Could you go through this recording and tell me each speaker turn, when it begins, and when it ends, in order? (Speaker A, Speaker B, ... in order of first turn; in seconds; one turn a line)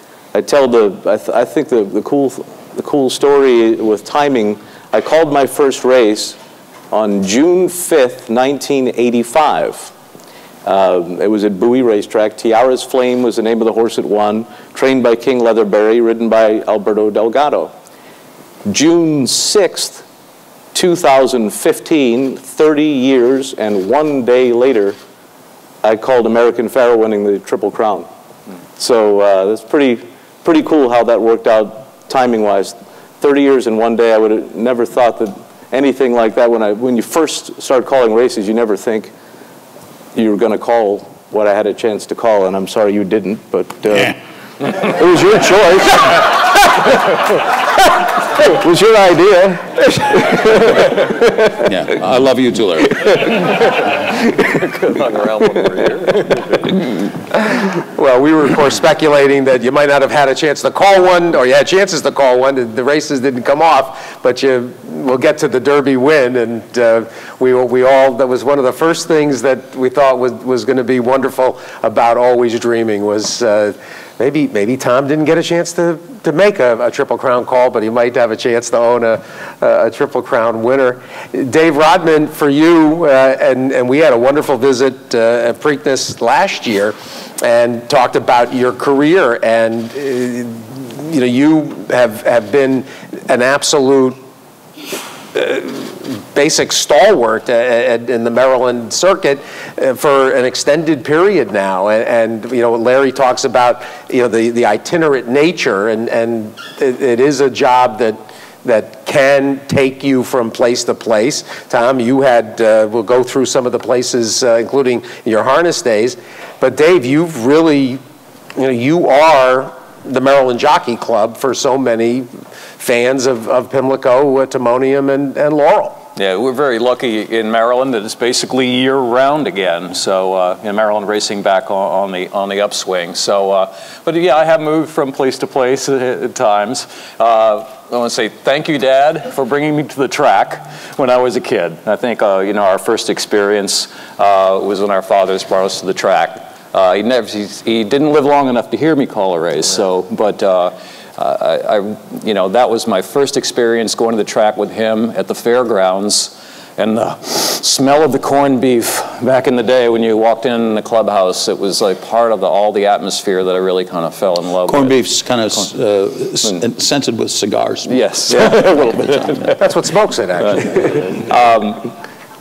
Speaker A: 0.3-6.4
Speaker A: 6.9-9.9
Speaker A: 10.7-17.7
Speaker A: 18.6-20.0
Speaker A: 20.7-25.0
Speaker A: 25.8-28.1
Speaker A: 28.8-39.1
Speaker A: 40.1-46.9
Speaker A: 48.4-50.8
Speaker B: 51.6-53.1
Speaker C: 53.5-56.9
Speaker D: 57.7-94.2
Speaker D: 95.3-118.0
Speaker D: 118.6-126.0
Speaker C: 126.2-165.0
Speaker B: 164.7-169.6
Speaker C: 167.9-169.6
Speaker D: 169.6-171.2
Speaker C: 171.2-171.9